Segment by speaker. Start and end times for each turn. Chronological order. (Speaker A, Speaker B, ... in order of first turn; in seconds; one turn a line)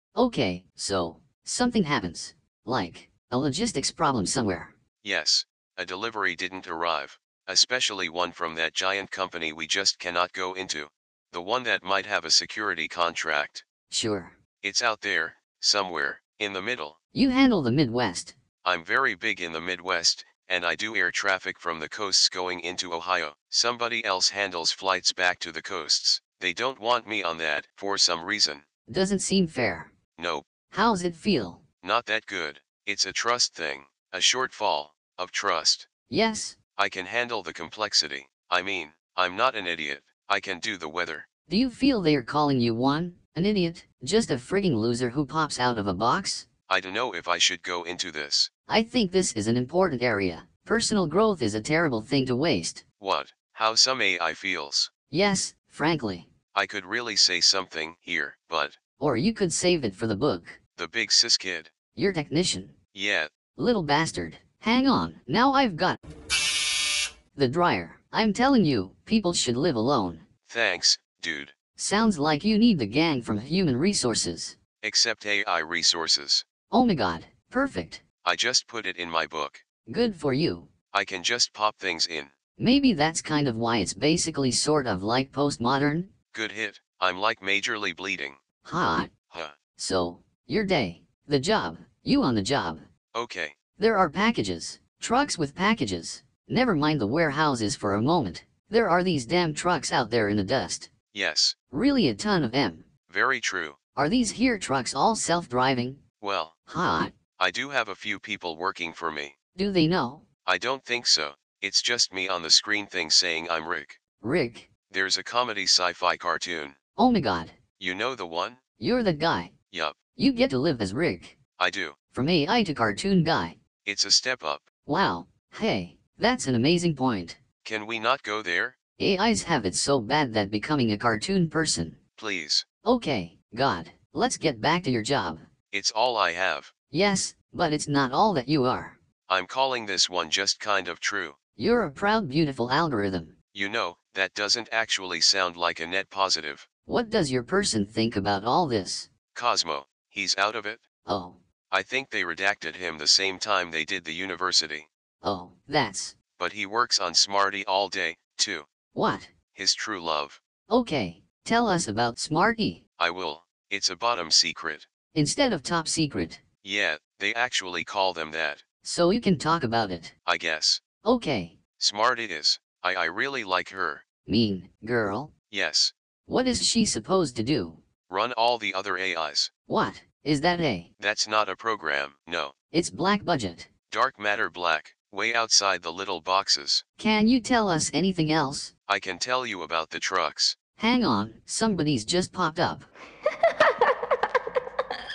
Speaker A: 0.1-4.7
Speaker B: 5.0-13.6
Speaker A: 13.9-14.3
Speaker B: 14.6-17.0
Speaker A: 17.1-18.3
Speaker B: 18.6-28.6
Speaker A: 28.9-29.9
Speaker B: 30.2-30.4
Speaker A: 30.7-31.6
Speaker B: 31.8-35.9
Speaker A: 36.1-36.6
Speaker B: 36.8-41.2
Speaker A: 41.5-46.5
Speaker B: 46.7-48.5
Speaker A: 48.7-52.8
Speaker B: 53.0-54.9
Speaker A: 55.1-56.3
Speaker B: 56.5-58.8
Speaker A: 59.0-60.6
Speaker B: 60.8-61.7
Speaker A: 61.9-62.7
Speaker B: 62.9-63.3
Speaker A: 63.5-66.0
Speaker A: 67.3-70.2
Speaker B: 70.5-71.5
Speaker A: 71.8-74.6
Speaker B: 74.8-76.4
Speaker A: 76.7-78.0
Speaker B: 78.2-79.6
Speaker A: 79.9-80.7
Speaker B: 80.9-82.3
Speaker A: 82.6-86.1
Speaker B: 86.3-88.4
Speaker A: 88.6-89.1
Speaker A: 89.8-92.8
Speaker B: 93.1-93.5
Speaker A: 93.8-100.9
Speaker B: 101.1-101.5
Speaker A: 101.7-102.8
Speaker B: 103.1-103.8
Speaker A: 103.9-106.0
Speaker B: 106.2-106.5
Speaker A: 106.7-107.1
Speaker B: 107.4-109.3
Speaker A: 109.5-110.2
Speaker B: 110.5-114.0
Speaker A: 114.2-114.7
Speaker B: 114.9-116.8
Speaker A: 117.0-117.5
Speaker B: 117.8-118.6
Speaker A: 118.8-119.5
Speaker B: 119.7-120.0
Speaker A: 120.2-121.4
Speaker B: 121.6-122.0
Speaker A: 122.1-123.5
Speaker B: 123.8-124.7
Speaker A: 124.8-127.4
Speaker B: 127.6-128.8
Speaker A: 129.0-132.0
Speaker B: 132.2-132.7
Speaker A: 132.8-135.4
Speaker B: 135.7-136.7
Speaker A: 136.9-139.0
Speaker B: 139.3-141.4
Speaker A: 141.6-143.3
Speaker B: 143.5-146.7
Speaker A: 146.9-149.1
Speaker B: 149.3-150.8
Speaker A: 151.1-151.4
Speaker B: 151.7-154.9
Speaker A: 155.2-156.1
Speaker B: 156.4-158.7
Speaker A: 158.9-159.3
Speaker B: 159.5-160.4
Speaker A: 160.7-162.8
Speaker B: 163.0-164.8
Speaker A: 165.1-166.4
Speaker B: 166.6-168.6
Speaker A: 168.8-170.1
Speaker B: 170.2-170.8
Speaker A: 171.0-171.6
Speaker B: 171.8-174.0
Speaker A: 174.2-175.3
Speaker B: 175.5-175.9
Speaker A: 176.3-177.8
Speaker B: 178.1-179.5
Speaker A: 179.7-180.9
Speaker B: 181.0-182.5
Speaker A: 182.7-183.7
Speaker B: 183.9-186.8
Speaker A: 187.0-188.7
Speaker B: 188.9-190.6
Speaker A: 190.8-192.9